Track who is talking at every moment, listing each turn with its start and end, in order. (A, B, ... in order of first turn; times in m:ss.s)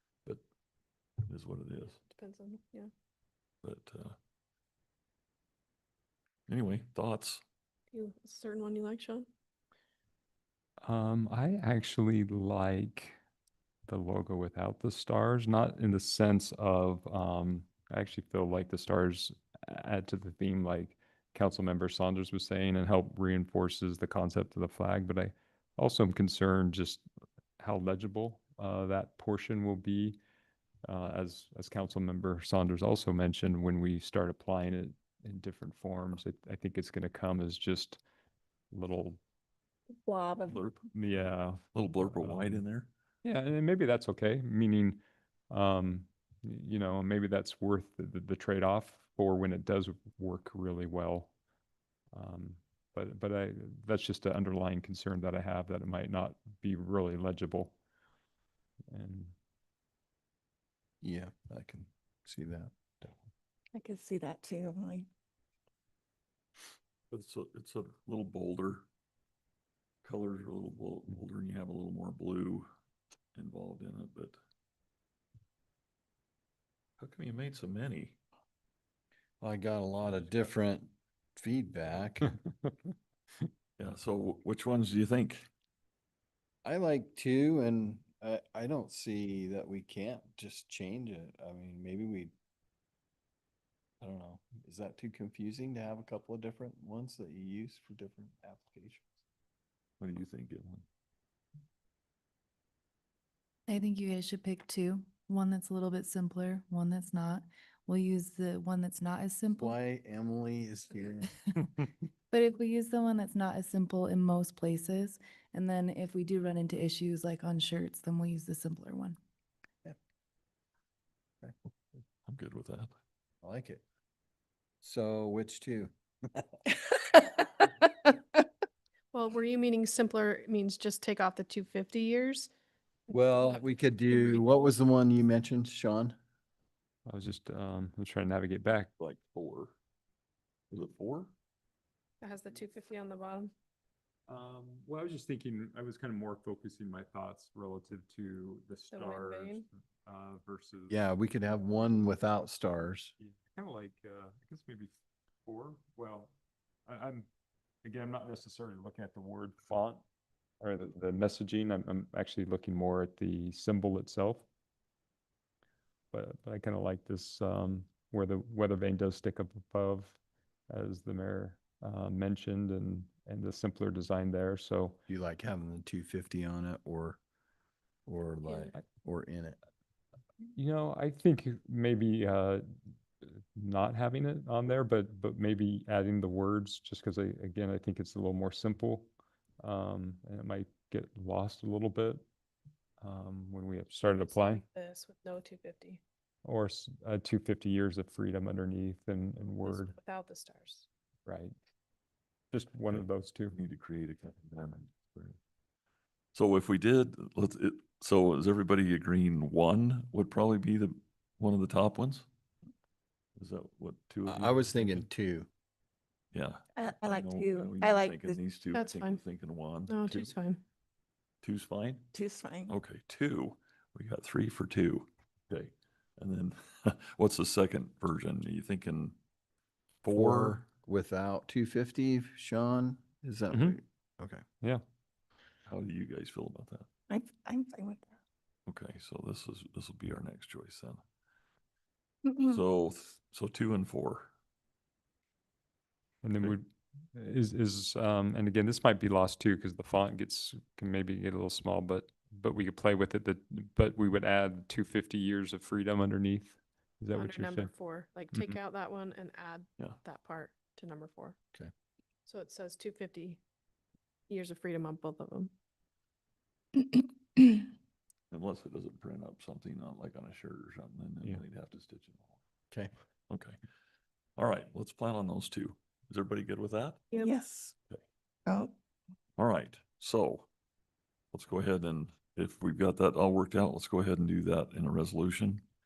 0:01.3-0:02.0 A
0:02.1-0:02.9 B
0:03.6-0:04.2 A
0:06.5-0:07.4 A
0:07.9-0:09.3 B
0:10.8-0:13.2 C
0:13.9-0:27.0 C
0:27.6-0:30.2 C
0:30.9-0:38.0 C
0:38.7-0:39.2 C
0:40.0-0:40.6 D
0:40.5-0:40.8 A
0:40.9-0:42.6 C
0:41.7-0:42.9 A
0:43.2-0:45.0 C
0:45.5-0:51.3 C
0:52.1-0:57.8 C
0:58.9-0:59.3 C
1:01.0-1:03.2 E
1:03.7-1:05.1 D
1:07.1-1:08.9 A
1:10.0-1:12.7 A
1:13.4-1:14.4 A
1:17.0-1:18.2 A
1:19.4-1:22.3 E
1:22.4-1:22.9 C
1:23.8-1:25.5 A
1:26.6-1:32.3 E
1:34.0-1:39.1 E
1:40.0-1:40.9 A
1:43.7-1:49.8 F
1:49.6-1:51.3 E
1:52.3-1:59.2 F
2:02.3-2:03.0 A
2:03.4-2:03.8 E
2:04.8-2:06.4 E
2:09.1-2:12.5 B
2:13.1-2:14.7 B
2:13.1-2:16.2 E
2:17.1-2:18.9 C
2:19.0-2:19.8 A
2:20.7-2:21.3 A
2:22.2-2:23.5 B
2:24.3-2:31.0 C
2:28.9-2:29.7 B
2:30.9-2:33.1 E
2:33.2-2:36.3 C
2:36.9-2:37.3 C
2:37.8-2:40.0 C
2:40.6-2:44.5 C
2:46.1-2:50.2 C
2:50.7-2:55.0 C
2:55.1-2:57.2 E
2:58.1-2:59.6 E
2:58.4-2:58.7 B
3:00.5-3:02.6 C
3:03.6-3:09.1 C
3:09.6-3:12.2 C
3:13.0-3:14.6 C
3:14.2-3:16.0 B
3:16.4-3:20.0 C
3:19.6-3:20.9 B
3:21.3-3:21.5 C
3:22.5-3:23.6 C
3:22.9-3:25.4 A
3:26.3-3:32.3 A
3:33.4-3:35.1 A
3:34.3-3:35.5 E
3:36.3-3:40.3 A
3:36.8-3:38.4 D
3:38.7-3:39.2 B
3:39.9-3:40.6 B
3:41.4-3:42.1 A
3:42.1-3:42.7 D
3:42.7-3:49.2 A
3:50.0-3:50.6 A
3:50.1-3:54.4 E
3:53.5-3:53.8 C
3:55.7-3:56.9 A
3:57.1-3:58.1 D
3:58.7-4:01.0 A
4:02.4-4:04.3 A
4:06.2-4:17.7 C
4:17.1-4:21.4 B
4:18.3-4:18.6 C
4:22.3-4:23.4 B
4:24.3-4:25.5 B
4:28.3-4:32.4 A
4:33.3-4:33.6 A
4:34.4-4:37.0 A
4:37.1-4:37.7 D
4:38.5-4:38.7 D
4:39.4-4:40.5 A
4:41.3-4:45.6 A